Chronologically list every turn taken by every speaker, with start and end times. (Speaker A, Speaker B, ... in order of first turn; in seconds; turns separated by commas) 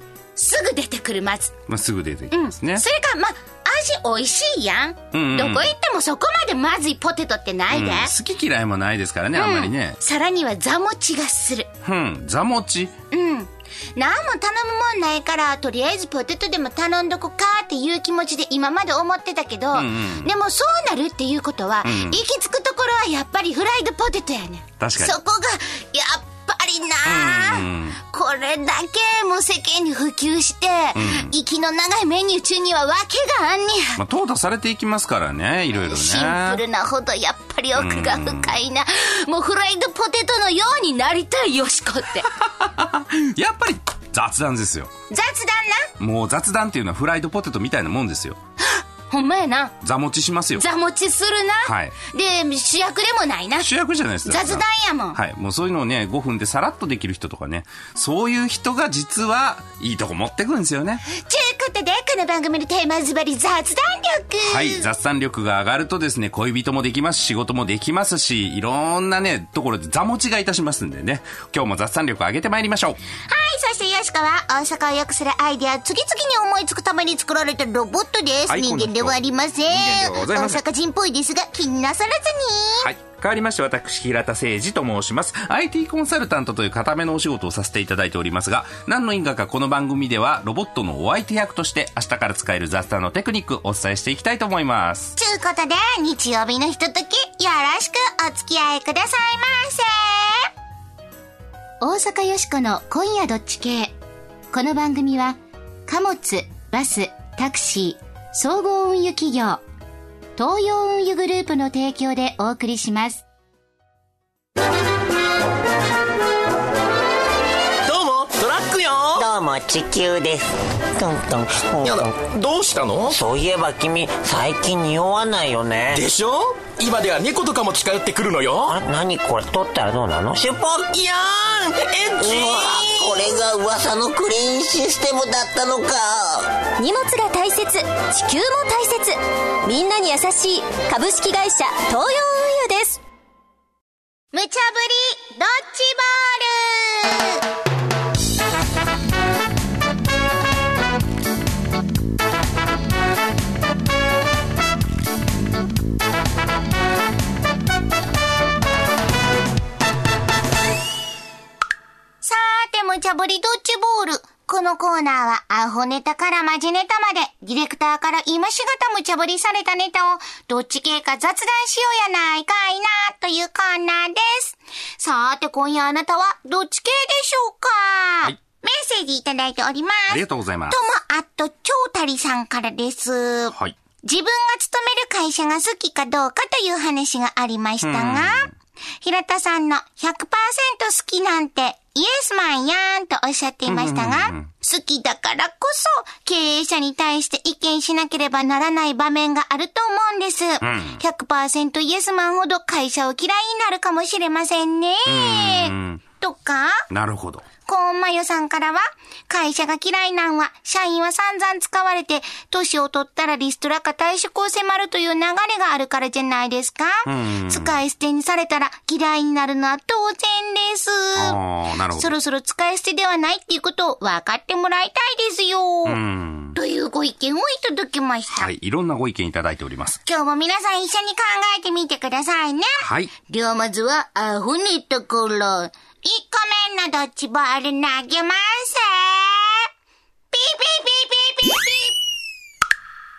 Speaker A: 0.3-1.5, Speaker B: 1.7-2.8, Speaker A: 2.3-8.1, Speaker B: 5.1-5.7, Speaker B: 7.7-10.0, Speaker A: 9.3-11.7, Speaker B: 11.8-12.9, Speaker A: 13.1-34.0, Speaker B: 19.7-20.3, Speaker B: 21.8-22.2, Speaker B: 24.8-25.1, Speaker B: 27.0-28.0, Speaker B: 30.9-31.3, Speaker B: 34.0-36.6, Speaker A: 35.8-42.3, Speaker B: 37.7-38.6, Speaker B: 42.3-44.9, Speaker A: 45.1-45.9, Speaker B: 46.0-48.4, Speaker A: 48.6-49.7, Speaker B: 49.8-50.6, Speaker A: 50.6-53.7, Speaker B: 51.6-51.9, Speaker B: 53.6-61.0, Speaker A: 54.2-55.2, Speaker A: 61.0-64.9, Speaker B: 64.4-73.0, Speaker A: 73.3-82.9, Speaker B: 78.5-80.6, Speaker B: 82.8-95.1, Speaker A: 95.2-100.5, Speaker A: 101.8-103.9, Speaker A: 104.5-109.6, Speaker A: 110.3-113.2, Speaker C: 117.9-119.3, Speaker D: 119.2-122.2, Speaker C: 121.8-123.2, Speaker D: 123.1-126.0, Speaker C: 125.9-128.8, Speaker D: 128.7-130.9, Speaker C: 130.9-133.3, Speaker D: 132.2-136.5, Speaker E: 136.8-143.0, Speaker A: 144.3-147.4, Speaker A: 162.2-188.5, Speaker B: 180.1-180.8, Speaker B: 187.8-188.5, Speaker A: 189.0-206.8, Speaker B: 193.7-194.5, Speaker B: 200.6-201.0, Speaker B: 205.1-206.0, Speaker B: 206.9-207.4, Speaker A: 207.7-221.4, Speaker B: 217.1-217.8, Speaker B: 221.1-222.1, Speaker A: 222.0-226.0, Speaker B: 225.9-226.6, Speaker A: 226.5-228.5, Speaker B: 228.3-230.0, Speaker A: 230.0-239.7, Speaker B: 232.8-233.1, Speaker A: 240.3-241.9